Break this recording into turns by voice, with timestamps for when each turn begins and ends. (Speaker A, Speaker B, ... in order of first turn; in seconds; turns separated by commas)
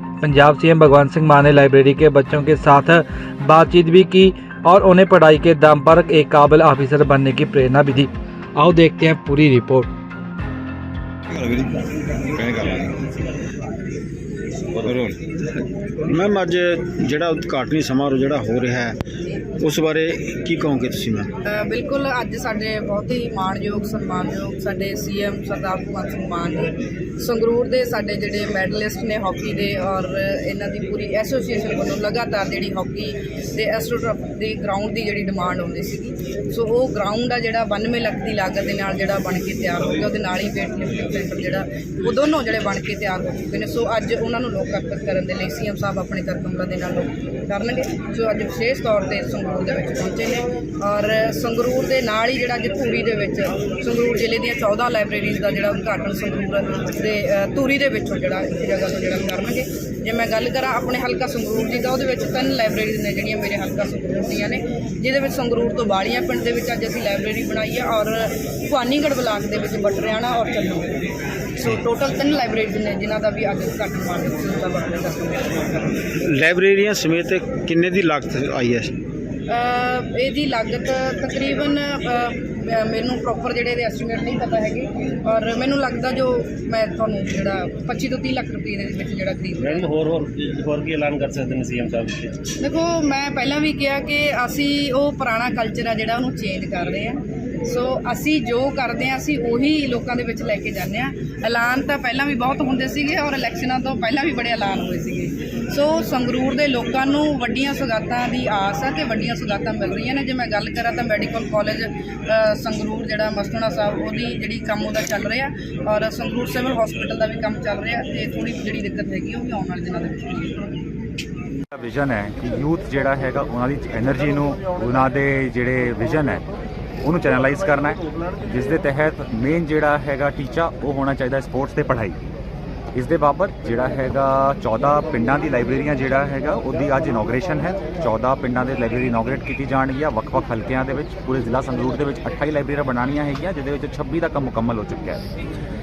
Speaker A: 0.2-9.9, Speaker B: 11.3-13.0, Speaker B: 14.8-15.1, Speaker C: 16.1-18.9, Speaker C: 19.6-21.3, Speaker D: 21.5-70.9, Speaker D: 71.6-75.8, Speaker C: 76.2-78.9, Speaker D: 79.5-89.8, Speaker E: 89.6-92.3, Speaker D: 92.6-120.7, Speaker F: 121.7-126.4, Speaker F: 127.0-132.2, Speaker F: 132.9-145.2